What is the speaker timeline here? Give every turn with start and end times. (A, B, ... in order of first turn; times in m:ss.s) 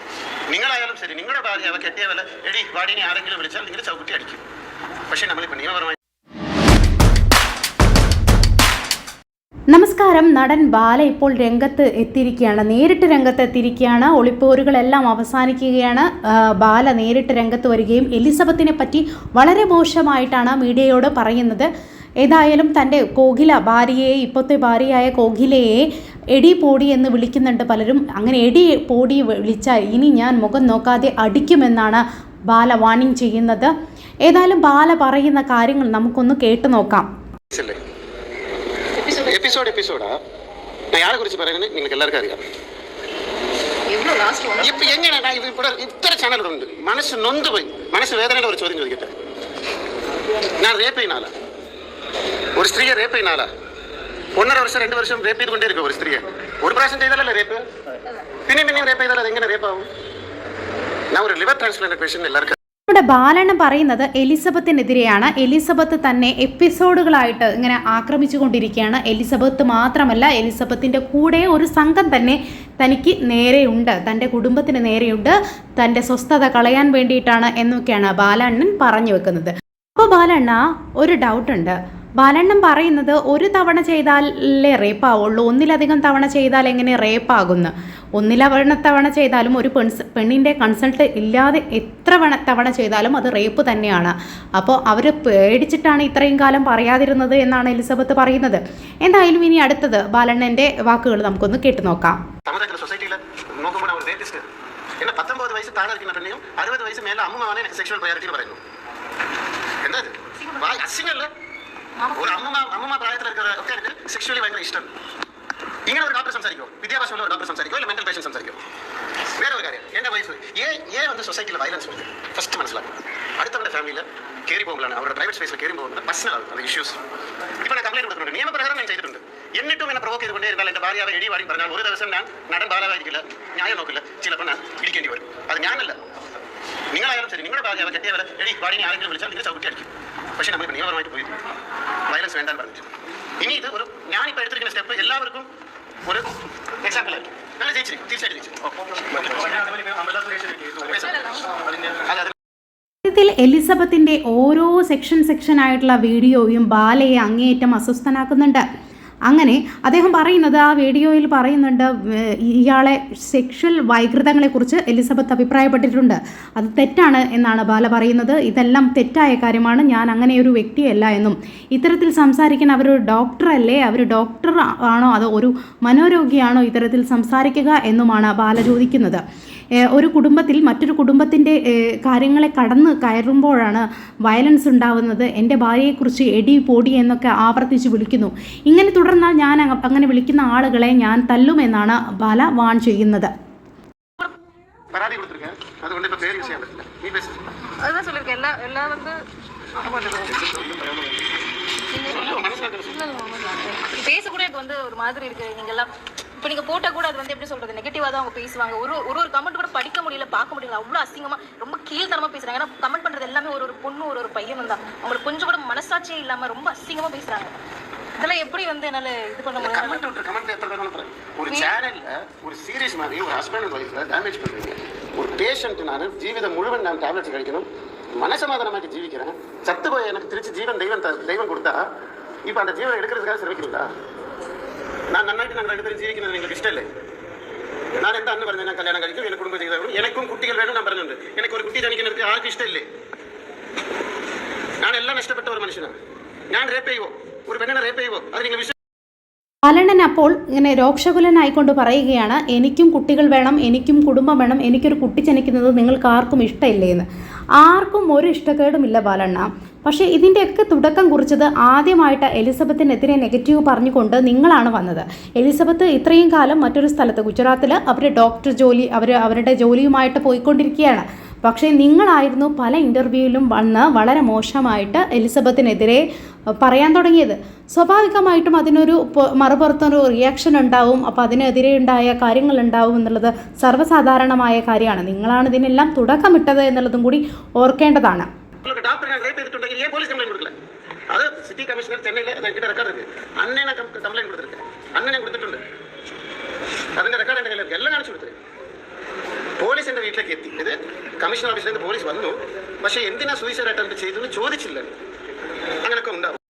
0:00.5-0:04.5 A
0:05.1-0:06.0 A
0:09.7-0:21.7 B
0:22.2-0:33.7 B
0:34.3-0:37.1 B
0:37.5-0:37.8 A
0:39.0-0:39.3 C
0:39.0-0:40.2 A
0:40.9-0:42.4 A
0:43.9-0:45.0 C
0:44.6-0:49.2 A
0:50.4-0:51.3 A
0:52.6-0:53.5 A
0:54.4-0:57.7 A
0:58.5-0:59.9 A
1:01.1-1:02.6 A
1:02.9-1:42.2 B
1:42.4-1:48.6 A
1:49.8-1:51.3 A
1:52.0-1:52.6 C
1:52.1-1:54.9 A
1:55.9-1:58.6 A
1:59.3-2:07.0 A
2:07.6-2:16.0 A
2:16.9-2:21.4 A
2:22.1-2:22.9 A
2:23.4-2:25.5 A
2:26.0-2:32.3 A
2:33.0-2:38.6 B
2:39.3-2:59.2 B
2:59.8-3:13.3 B
3:14.9-3:17.4 A
3:17.8-3:19.2 C
3:19.8-3:21.2 A
3:19.9-3:20.2 C
3:21.9-3:37.6 C
3:22.0-3:23.1 A
3:38.2-3:40.0 C
3:39.6-3:51.9 A
3:52.4-3:53.9 A
3:55.1-3:56.9 A
3:58.0-4:02.9 A
4:04.8-4:06.0 A
4:06.5-4:08.8 A
4:09.6-4:17.1 B
4:17.6-4:36.0 B
4:36.6-4:48.3 B
4:48.6-4:50.5 A
4:51.1-4:55.6 A
4:57.0-4:58.4 A
4:59.6-5:05.0 A
5:05.8-5:06.4 A